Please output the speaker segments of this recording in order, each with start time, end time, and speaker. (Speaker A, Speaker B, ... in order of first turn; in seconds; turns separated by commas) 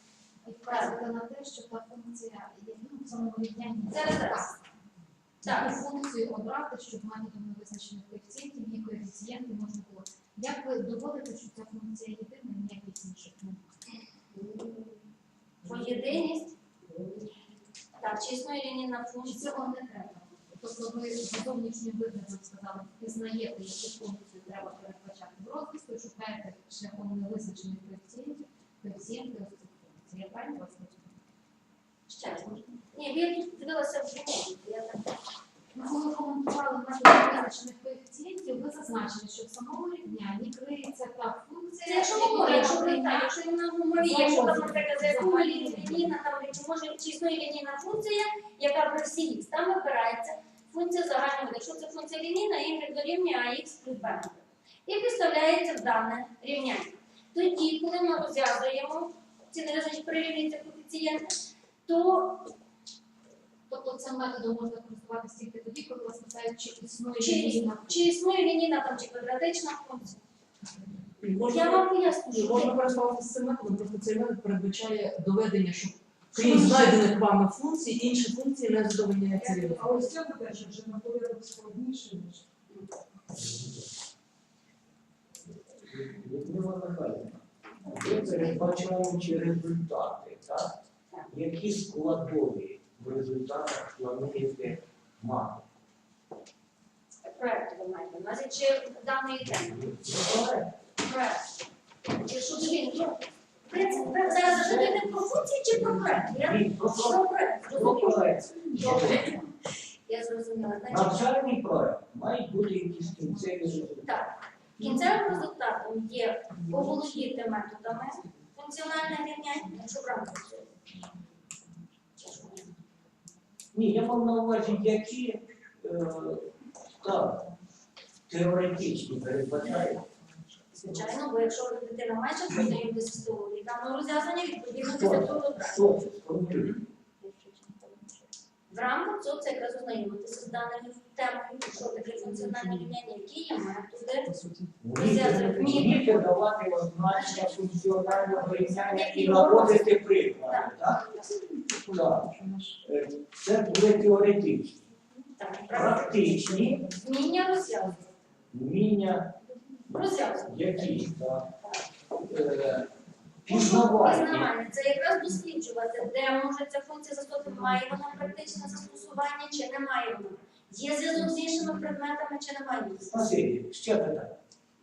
Speaker A: 0.4-4.6, Speaker B: 0.7-1.0, Speaker B: 3.9-4.5, Speaker B: 5.4-5.8, Speaker A: 5.4-13.7, Speaker B: 15.6-16.5, Speaker B: 18.0-19.6, Speaker A: 19.2-31.2, Speaker B: 32.1-35.1, Speaker A: 35.7-43.4, Speaker B: 41.8-62.5, Speaker A: 43.9-46.1, Speaker A: 63.7-68.0, Speaker B: 67.2-70.2, Speaker C: 71.2-79.8, Speaker B: 71.4-72.8, Speaker D: 76.4-76.7, Speaker B: 79.3-80.1, Speaker E: 79.5-82.4, Speaker D: 85.8-90.8, Speaker D: 91.3-95.7, Speaker B: 97.2-100.0, Speaker D: 99.7-100.7, Speaker B: 101.0-101.5, Speaker B: 102.2-109.5, Speaker D: 104.5-105.1, Speaker D: 106.3-109.3, Speaker B: 110.1-111.2, Speaker D: 110.9-114.3, Speaker B: 114.0-120.8, Speaker B: 122.2-122.7, Speaker D: 123.7-127.5, Speaker D: 128.3-130.1, Speaker B: 130.7-135.9, Speaker D: 134.8-136.8, Speaker B: 138.7-146.4, Speaker D: 144.8-151.0, Speaker B: 147.1-151.5, Speaker E: 151.5-152.7, Speaker D: 151.9-154.8, Speaker B: 155.4-158.1, Speaker D: 155.7-156.8, Speaker D: 158.5-159.4, Speaker B: 159.9-160.6, Speaker D: 160.3-161.5, Speaker B: 161.6-161.8, Speaker D: 162.3-162.9, Speaker D: 163.4-164.5, Speaker B: 163.5-173.2, Speaker D: 173.1-174.4